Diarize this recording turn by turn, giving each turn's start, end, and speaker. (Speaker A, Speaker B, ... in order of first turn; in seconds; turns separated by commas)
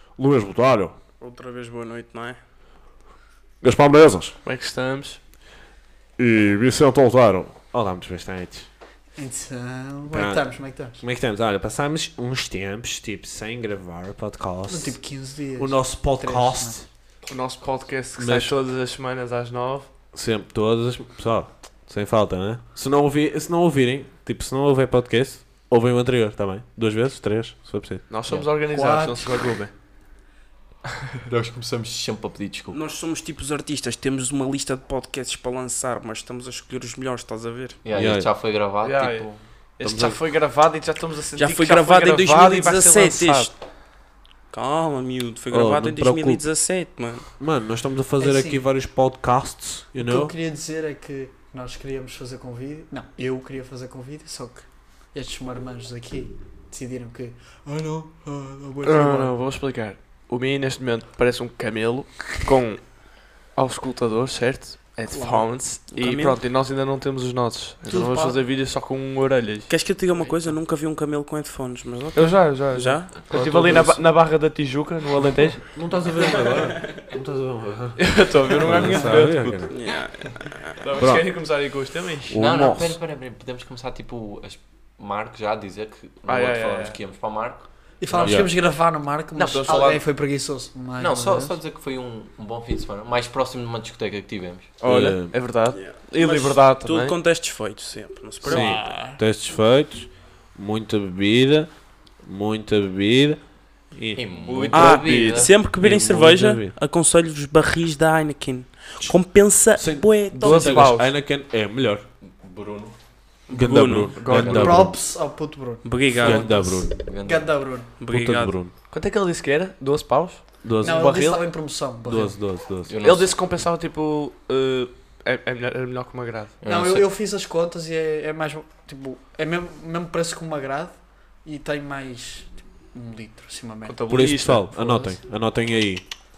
Speaker A: 0.2-0.9, Speaker B: 1.2-2.4, Speaker A: 3.6-4.3, Speaker C: 4.4-5.2, Speaker A: 6.2-8.7, Speaker D: 9.2-11.0, Speaker A: 10.1-10.5, Speaker A: 11.0-15.0, Speaker D: 14.7-16.8, Speaker A: 15.6-16.8, Speaker C: 17.2-19.9, Speaker A: 18.2-18.5, Speaker A: 20.1-28.0, Speaker C: 28.1-29.7, Speaker D: 28.7-29.4, Speaker E: 31.1-32.8, Speaker B: 32.7-37.8, Speaker E: 37.8-39.4, Speaker A: 38.0-38.3, Speaker C: 38.8-43.5, Speaker A: 39.8-40.2, Speaker B: 41.4-43.5, Speaker B: 44.5-47.3, Speaker A: 45.5-46.4, Speaker A: 47.4-50.3, Speaker D: 48.2-48.6, Speaker D: 50.0-59.3, Speaker C: 58.8-63.0, Speaker C: 63.5-69.7, Speaker D: 65.1-65.5, Speaker B: 65.9-66.4, Speaker D: 67.9-68.4, Speaker B: 69.7-73.3, Speaker C: 72.1-75.8, Speaker A: 73.3-74.0, Speaker A: 75.7-79.7, Speaker B: 76.2-76.9, Speaker C: 78.0-79.6, Speaker B: 79.7-80.9, Speaker C: 80.8-82.4, Speaker A: 81.0-81.5, Speaker A: 82.3-83.0, Speaker E: 82.4-87.7, Speaker C: 86.3-87.0, Speaker D: 88.0-91.5, Speaker C: 88.1-88.5, Speaker A: 88.2-88.5, Speaker C: 89.3-90.0, Speaker E: 89.4-89.7, Speaker E: 91.0-94.7, Speaker C: 94.8-97.2, Speaker A: 94.8-95.4, Speaker B: 95.7-99.0, Speaker A: 98.5-101.7, Speaker C: 98.5-99.2, Speaker A: 102.2-103.4, Speaker A: 103.9-104.2, Speaker E: 104.2-105.5, Speaker C: 104.5-105.5, Speaker B: 104.7-110.9, Speaker A: 105.8-106.7, Speaker A: 109.8-112.0, Speaker C: 110.3-111.1, Speaker E: 112.2-113.0, Speaker B: 113.5-114.2, Speaker A: 113.5-115.0, Speaker C: 114.1-114.9, Speaker E: 114.3-114.7, Speaker D: 114.4-117.9, Speaker B: 115.8-116.7, Speaker A: 116.2-116.9, Speaker E: 116.9-117.5, Speaker B: 118.0-118.6, Speaker A: 118.1-118.7, Speaker C: 118.9-121.5, Speaker A: 120.6-121.1, Speaker D: 120.8-122.4, Speaker A: 122.0-122.9, Speaker E: 122.9-123.4, Speaker C: 123.0-126.6, Speaker E: 126.6-127.1, Speaker D: 126.6-130.9, Speaker D: 131.4-134.0, Speaker C: 133.8-135.2, Speaker A: 134.1-136.0